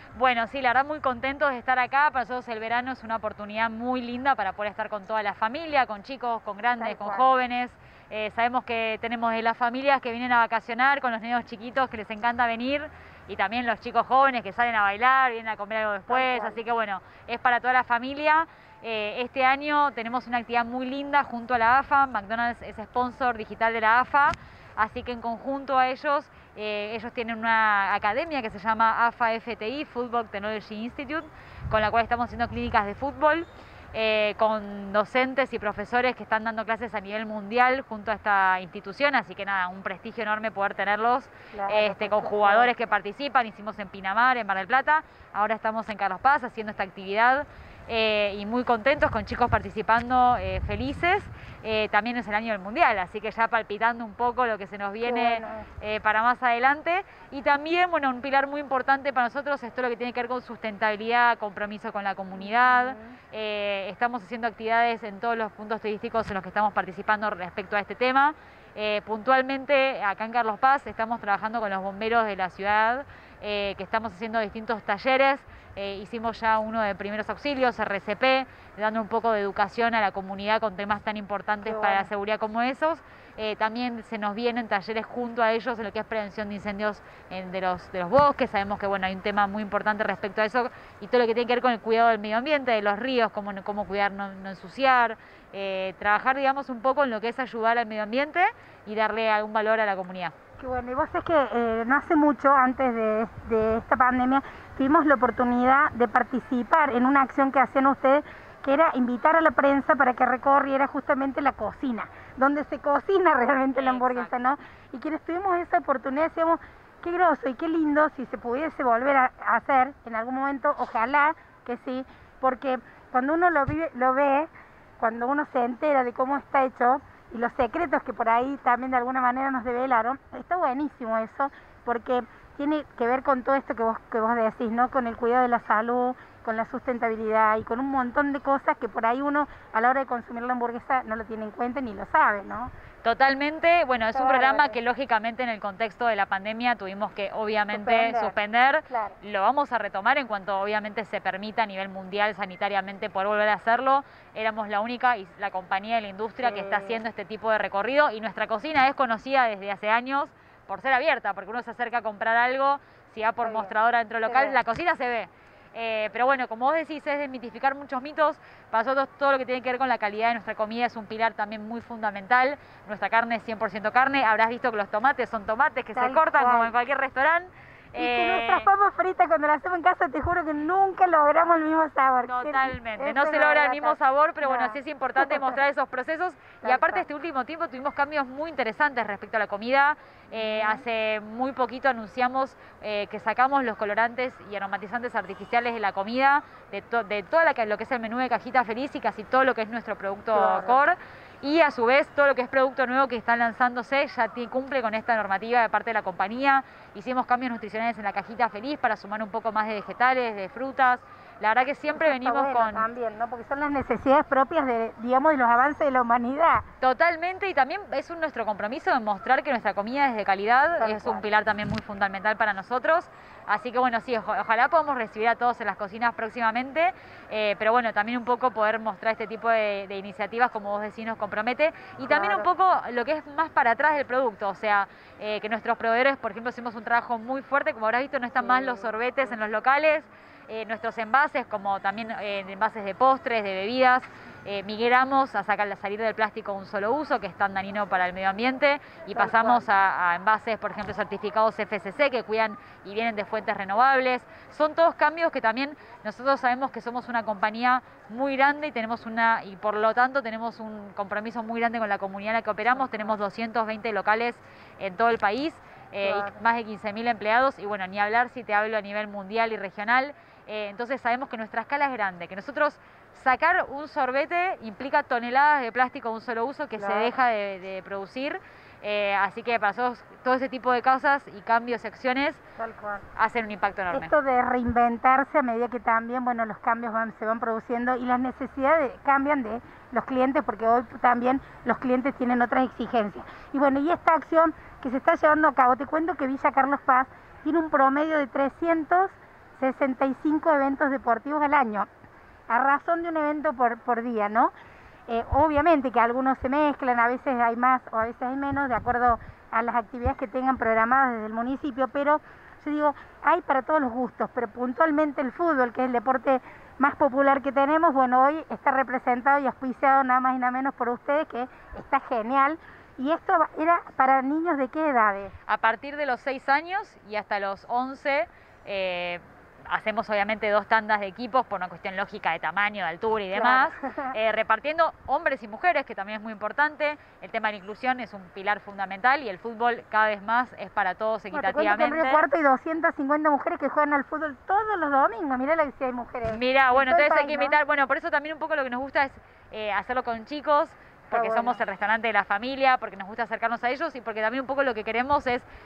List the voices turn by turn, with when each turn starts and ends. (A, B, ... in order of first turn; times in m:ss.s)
0:00.2-1:40.3 A
0:06.8-0:07.3 B
0:16.1-0:16.6 B
0:41.5-0:42.7 B
0:55.0-0:55.7 B
1:02.4-1:03.2 B
1:21.6-1:22.1 B
1:40.6-2:22.7 B
1:53.7-1:54.5 A
2:23.0-2:58.7 A
2:24.1-2:24.8 B
2:27.7-2:28.4 B
2:28.9-2:29.2 B
2:36.4-2:37.0 B
2:43.4-2:44.6 B
2:55.9-2:56.7 B
2:58.0-3:05.6 B
3:02.2-3:32.9 A
3:06.6-3:07.1 B
3:10.3-3:10.8 B
3:20.3-3:20.8 B
3:31.9-3:36.6 B
3:36.8-4:42.4 A
3:40.8-3:41.3 B
3:52.0-3:52.5 B
3:58.4-3:59.4 B
4:09.1-4:09.7 B
4:22.7-4:23.2 B
4:26.0-4:26.4 B
4:36.8-4:37.2 B
4:42.6-4:43.0 B
4:43.1-4:44.1 A
4:43.9-5:01.9 B
5:02.5-5:04.5 B
5:05.1-5:25.3 B
5:25.5-5:42.2 A
5:33.3-5:34.1 B
5:41.3-5:47.6 B
5:46.3-5:55.4 A
5:51.1-5:51.6 B